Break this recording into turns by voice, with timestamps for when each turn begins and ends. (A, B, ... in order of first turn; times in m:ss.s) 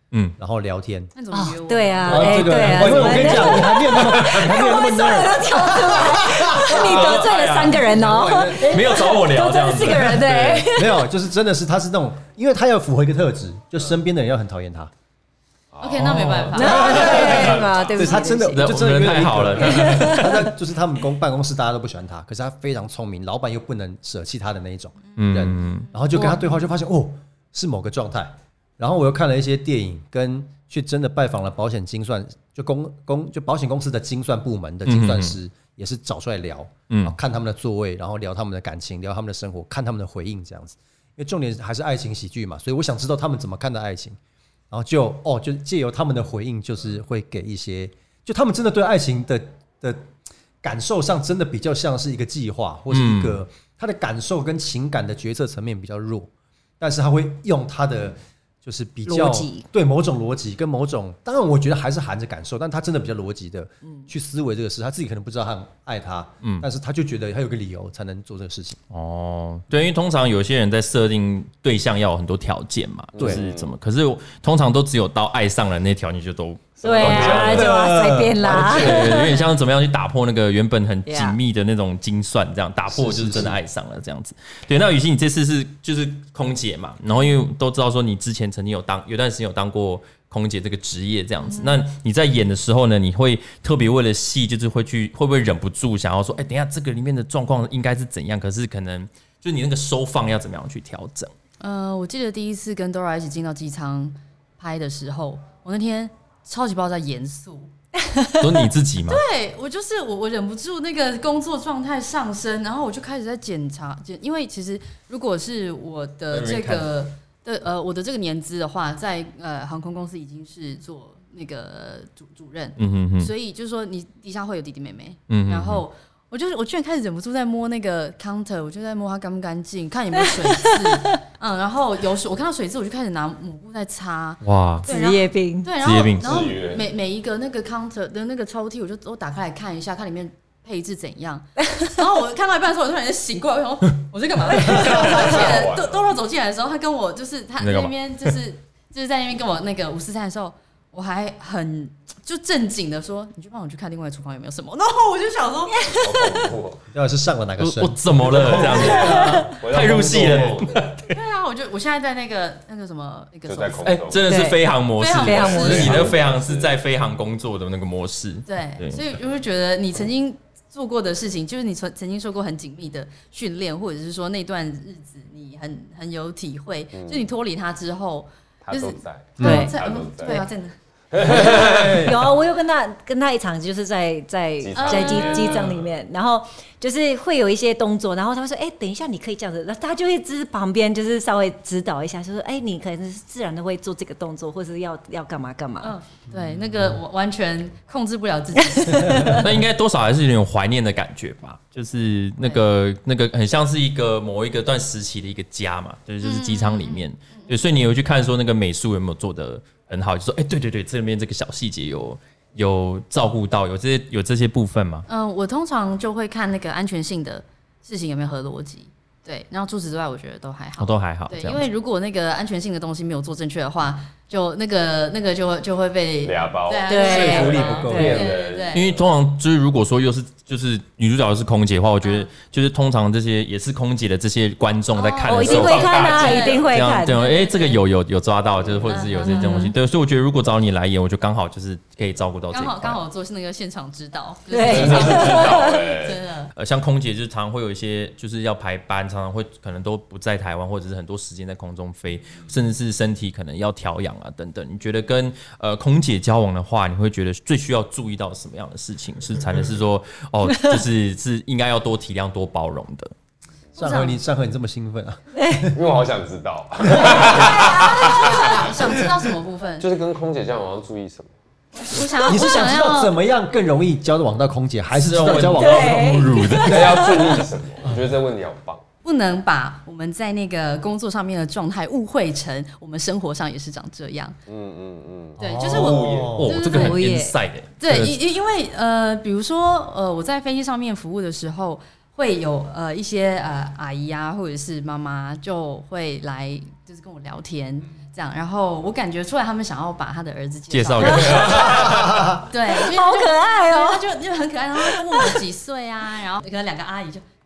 0:00.4-0:01.1 A
0:01.1-0:03.3 B
0:01.3-0:11.1 C
0:02.1-0:06.8 A
0:02.6-0:03.7 D
0:06.2-0:10.7 D
0:06.8-0:08.9 E
0:10.7-0:14.9 A
0:15.7-0:18.2 E
0:15.8-0:17.3 B
0:16.0-0:17.5 D
0:16.5-0:18.7 C
0:16.7-0:44.2 A
0:18.5-0:20.5 D
0:19.6-0:20.4 C
0:25.2-0:25.9 D
0:26.1-0:26.6 C
0:34.8-0:35.4 D
0:36.9-0:37.1 D
0:44.7-0:50.1 A
0:50.6-1:08.8 A
0:52.9-0:53.4 D
0:59.0-0:59.6 C
1:08.9-1:17.8 D
1:13.2-1:13.7 E
1:13.2-1:13.4 A
1:16.8-1:17.7 E
1:16.8-1:19.4 C
1:17.0-1:19.2 A
1:18.4-1:41.3 D
1:21.0-1:21.4 C
1:22.9-1:23.6 A
1:31.5-1:31.8 B
1:41.6-1:47.7 B
1:48.0-1:48.4 C
1:48.3-1:49.2 D
1:49.1-2:36.0 B
1:56.3-1:56.9 D
2:02.8-2:03.3 D
2:05.3-2:05.8 D
2:10.2-2:11.2 C
2:14.4-2:14.9 D
2:14.8-2:15.7 C
2:15.8-2:16.4 D
2:16.2-2:16.9 E
2:24.7-2:26.0 E
2:27.6-2:28.3 D
2:35.9-2:36.8 E
2:36.9-2:39.5 A
2:37.6-2:41.0 D
2:38.2-2:41.0 E
2:39.0-2:39.5 C
2:41.1-2:44.1 B
2:43.5-2:44.2 E
2:43.8-2:49.0 D
2:44.2-2:44.6 C
2:45.0-2:46.1 B
2:45.2-2:46.8 E
2:45.2-2:45.9 C
2:48.4-3:00.7 B
2:56.9-2:57.3 E
2:58.6-3:00.4 E
2:59.4-2:59.7 A
2:59.4-3:00.4 C
3:01.1-3:02.1 E
3:01.2-3:15.9 C
3:01.4-3:02.2 A
3:04.6-3:05.8 E
3:04.7-3:05.8 B
3:15.8-3:19.4 B
3:18.8-3:19.4 C
3:19.2-3:35.1 D
3:26.2-3:27.5 B
3:35.1-3:48.9 B
3:40.8-3:41.6 D
3:46.2-3:49.0 E
3:46.9-3:48.3 C
3:47.0-3:48.3 A
3:48.7-4:03.0 D
3:52.0-3:52.3 B
3:54.9-3:57.8 B
3:55.3-3:57.2 C
3:55.4-3:56.6 E
3:58.9-3:59.7 B
3:59.2-3:59.7 C
4:02.5-4:06.5 B
4:04.5-4:05.8 C
4:04.6-4:06.2 E
4:06.5-4:23.1 D
4:23.8-4:24.2 B
4:23.8-4:25.8 A
4:25.4-4:25.7 C
4:25.7-4:28.8 E
4:26.9-4:27.5 A
4:27.5-4:29.9 B
4:29.8-4:31.3 E
4:31.8-4:33.1 B
4:32.2-4:37.1 A
4:34.9-4:37.3 D
4:35.5-4:37.2 C
4:36.6-4:38.8 E
4:39.0-4:44.4 B
4:44.5-4:46.4 E
4:45.4-4:46.5 A
4:45.4-4:47.0 B
4:46.3-4:48.2 D
4:46.7-4:47.3 C
4:47.8-5:01.9 B
5:00.7-5:02.3 D
5:01.1-5:02.0 E
5:01.9-5:02.4 A
5:02.4-5:07.2 B
5:02.7-5:04.0 C
5:04.8-5:05.4 C